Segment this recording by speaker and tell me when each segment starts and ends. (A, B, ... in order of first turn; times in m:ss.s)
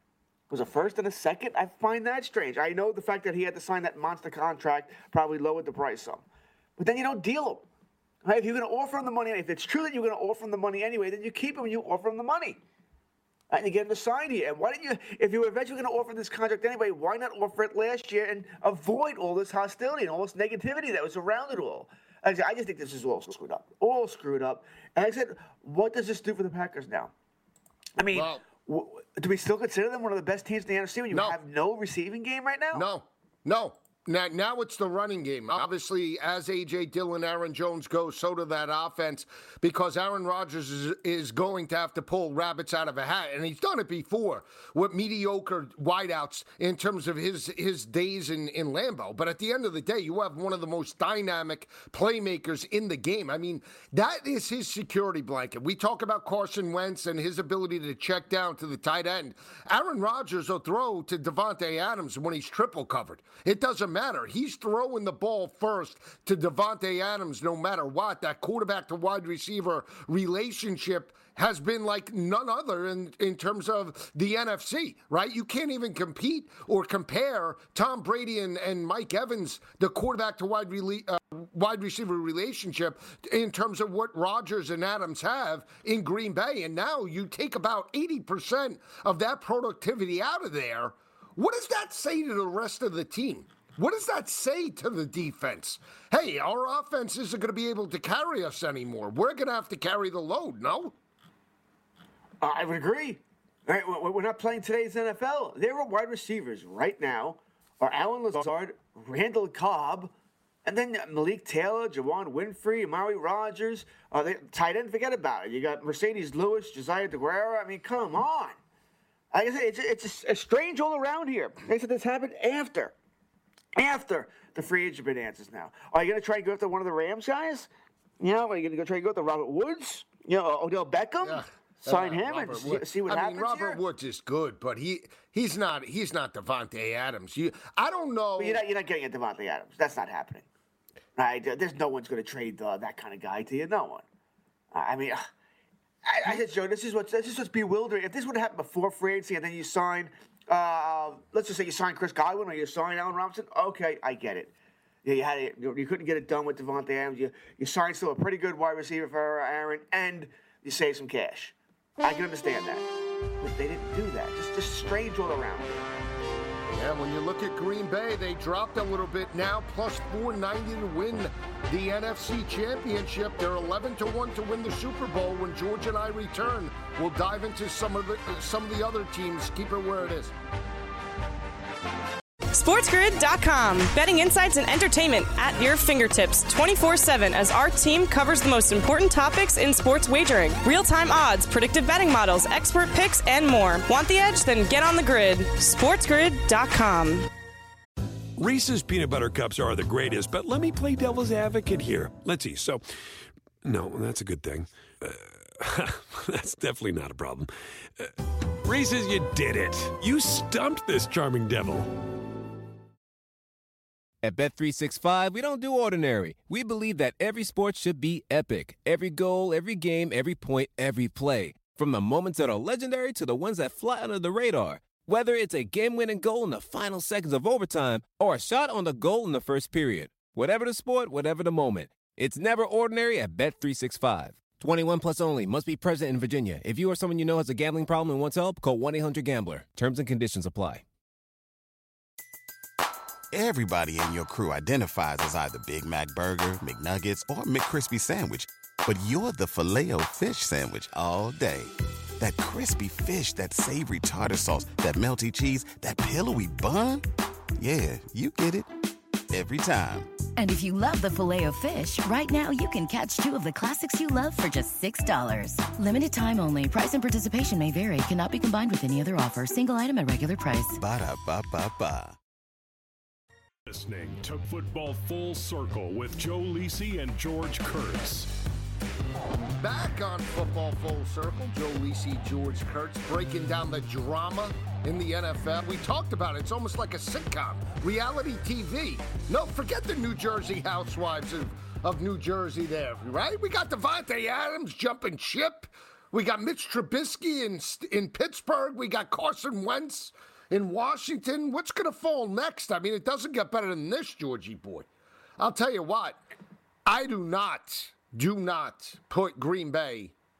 0:00.5-0:06.2 A
0:06.8-0:07.6 A
0:08.2-0:12.6 A
0:13.5-0:27.1 A
0:28.0-0:32.9 A
0:28.1-0:28.4 B
0:31.1-0:31.4 B
0:32.7-1:40.9 B
1:42.4-1:50.1 A
1:50.6-1:58.6 A
1:59.3-2:02.9 A
2:03.8-2:13.8 A
2:11.2-2:18.6 B
2:18.4-2:20.4 A
2:21.2-2:24.0 A
2:24.7-2:25.3 A
2:26.0-2:34.5 A
2:35.0-2:42.9 A
2:43.4-2:45.8 A
2:46.7-3:00.3 B
3:02.5-3:17.3 C
3:18.4-3:22.8 D
3:23.6-3:31.9 D
3:34.2-4:00.8 E
4:03.3-4:17.0 F
4:17.6-4:18.7 F
4:19.3-4:20.1 F
4:20.4-4:30.8 G
4:30.8-4:32.2 F
4:33.7-4:38.3 H
4:39.6-5:04.9 B
5:05.4-5:06.2 B
5:06.8-5:10.1 B